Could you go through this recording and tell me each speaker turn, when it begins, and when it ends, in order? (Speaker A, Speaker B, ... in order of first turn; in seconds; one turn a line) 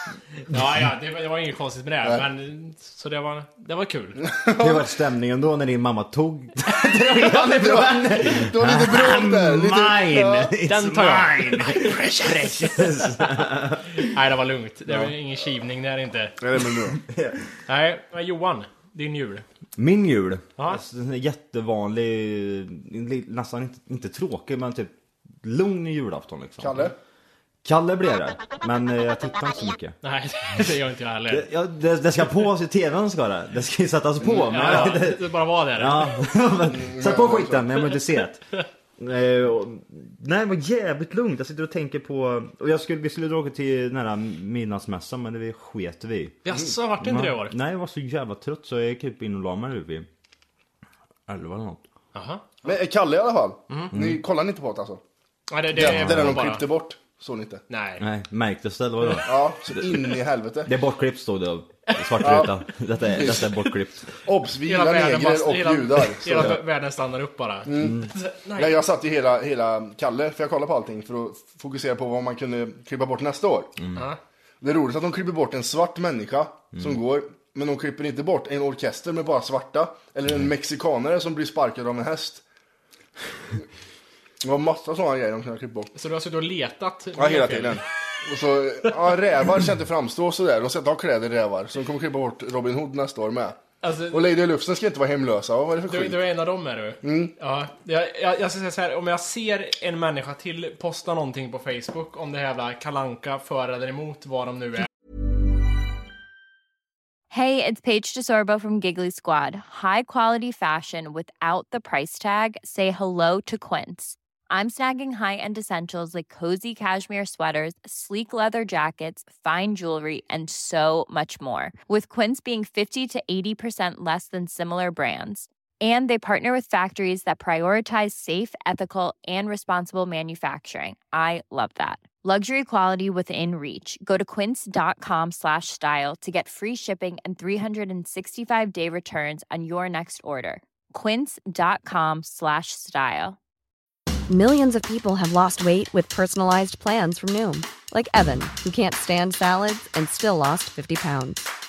Speaker A: 0.4-4.2
Speaker B: 4.2-4.9
Speaker C: 4.6-14.0
Speaker B: 7.3-10.5
Speaker A: 10.7-13.3
Speaker A: 13.9-16.4
Speaker B: 16.4-17.0
Speaker C: 17.1-17.4
Speaker A: 17.7-19.4
Speaker C: 19.8-24.9
Speaker C: 25.4-26.9
Speaker B: 26.6-26.9
Speaker C: 27.6-30.0
Speaker A: 30.0-31.5
Speaker C: 31.3-38.4
Speaker B: 34.4-34.9
Speaker A: 34.4-36.2
Speaker B: 36.7-37.7
Speaker C: 39.0-46.5
Speaker A: 46.5-47.5
Speaker C: 47.0-50.1
Speaker C: 51.3-51.8
Speaker A: 52.1-52.7
Speaker B: 52.6-55.0
Speaker A: 53.7-53.9
Speaker C: 53.9-54.2
Speaker A: 55.5-56.6
Speaker B: 55.7-57.6
Speaker C: 55.8-56.4
Speaker A: 57.7-58.0
Speaker C: 58.0-64.1
Speaker B: 59.2-60.7
Speaker B: 62.2-62.5
Speaker B: 63.1-63.6
Speaker B: 64.2-66.6
Speaker A: 64.7-68.8
Speaker C: 66.3-66.6
Speaker B: 67.7-73.7
Speaker B: 74.6-82.4
Speaker B: 84.4-85.9
Speaker A: 86.0-87.8
Speaker B: 87.2-93.6
Speaker A: 93.8-94.3
Speaker B: 94.1-96.2
Speaker A: 95.9-104.9
Speaker B: 97.0-97.3
Speaker D: 107.3-143.4
Speaker E: 144.3-151.5